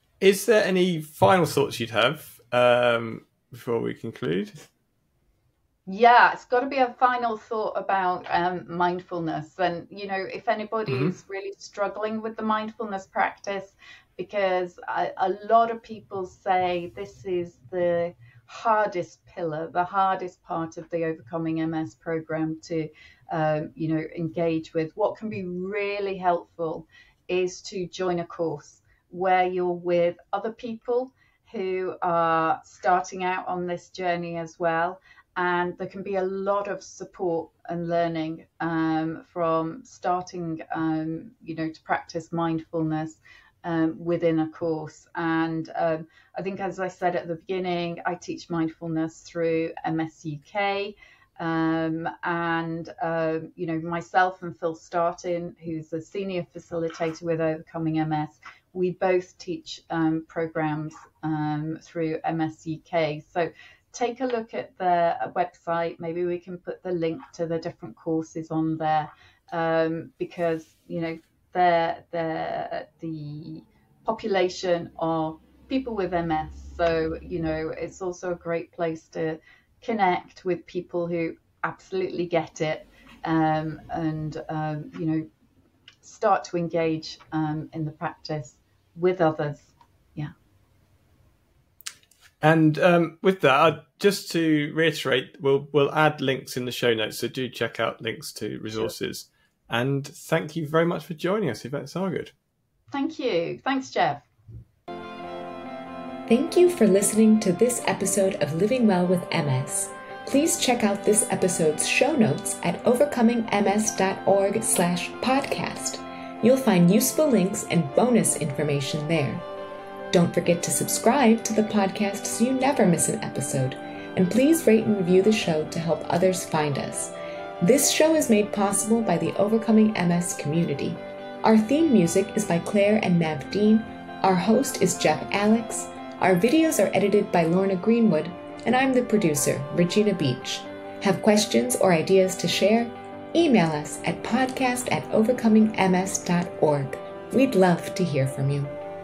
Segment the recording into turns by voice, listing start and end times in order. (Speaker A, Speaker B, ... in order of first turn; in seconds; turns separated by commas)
Speaker A: 0.2-4.6, Speaker B: 5.9-85.2, Speaker A: 10.9-11.1, Speaker B: 86.0-90.3, Speaker A: 92.4-102.3, Speaker B: 102.9-104.3, Speaker C: 106.3-119.4, Speaker C: 120.1-148.8